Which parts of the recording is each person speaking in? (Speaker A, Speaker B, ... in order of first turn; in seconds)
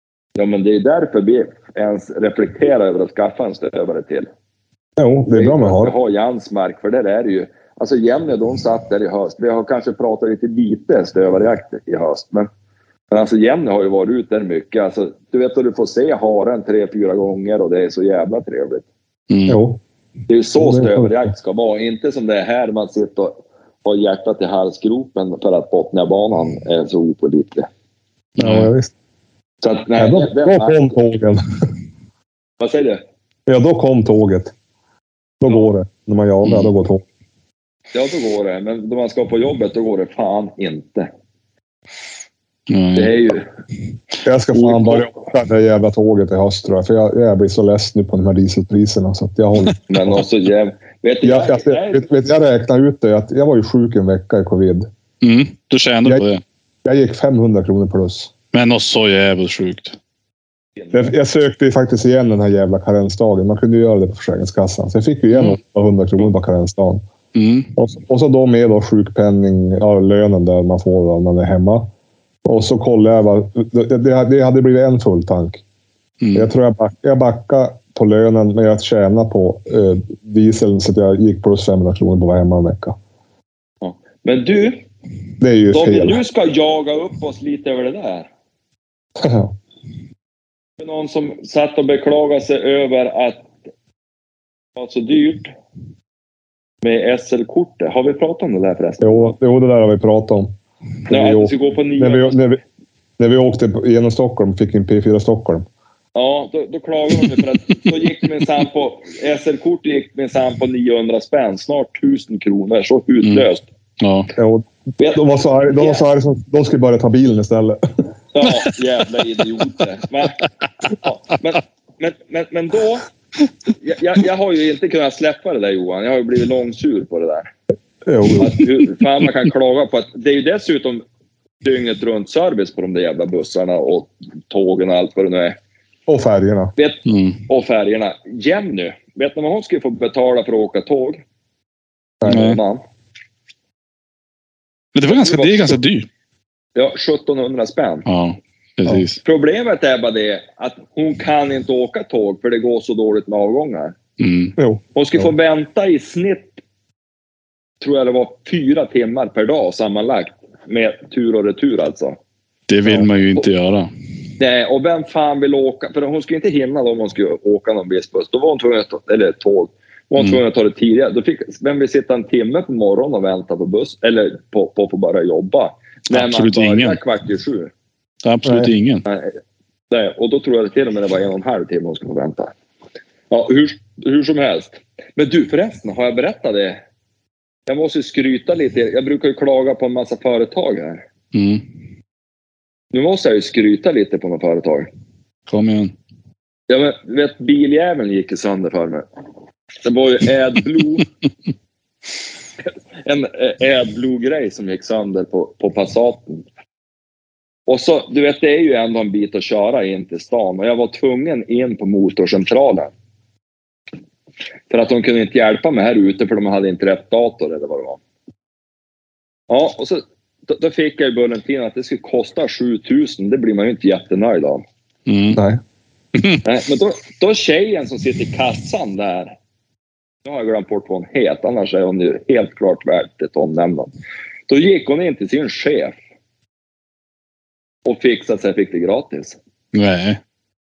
Speaker A: 0.4-4.3, 5.3-12.5, 13.1-18.9, 20.3-27.7, 29.6-31.0, 32.6-33.0, 37.9-41.1, 43.0-43.5, 44.6-45.0, 49.9-52.1, 60.8-61.1, 83.8-84.8, 85.7-88.3, 90.8-93.5, 94.8-95.5, 96.8-99.4, 101.1-102.5, 106.2-113.7, 115.0-116.0, 118.3-120.4, 121.0-123.1, 123.8-127.5, 128.4-131.0, 131.6-135.6, 136.8-141.2, 142.3-142.8, 145.1-145.8, 146.8-148.1, 149.2-154.0, 154.9-156.6, 157.8-162.2, 164.4-177.7, 179.1-179.4, 179.9-182.5, 183.3-186.8, 187.7-191.1, 192.9-194.9, 196.7-199.1, 199.8-201.1, 203.0-206.4, 207.7-212.9, 214.7-218.0, 219.5-224.7, 226.4-229.3, 230.2-233.9, 234.5-236.0, 237.9-239.4
Speaker B: 5.0-5.9, 19.5-19.8, 20.6-21.3, 28.4-28.9, 30.0-31.4, 33.5-34.5, 35.4-37.0, 44.2-49.8, 51.2-54.9, 56.9-58.3, 60.9-67.0, 67.8-71.9, 72.5-75.6, 76.3-83.0, 85.4-86.2, 89.2-89.5, 99.0-100.5, 101.1-102.6, 103.2-105.7, 114.4-117.8, 128.1-128.6, 136.1-136.7, 154.6-155.3, 178.4-178.7, 225.3-225.6
Speaker C: 19.3-19.6, 28.4-28.7, 36.4-36.7, 42.7-43.2, 55.2-56.4, 58.5-60.0, 67.3-67.7, 76.2-76.5, 114.0-114.3, 137.1-137.4, 142.3-142.6, 144.9-146.1, 148.1-149.2, 154.2-154.6, 162.7-163.9, 176.1-177.0, 178.2-179.1, 191.3-191.6, 195.5-195.9, 225.1-225.4, 226.2-226.4, 239.7-240.2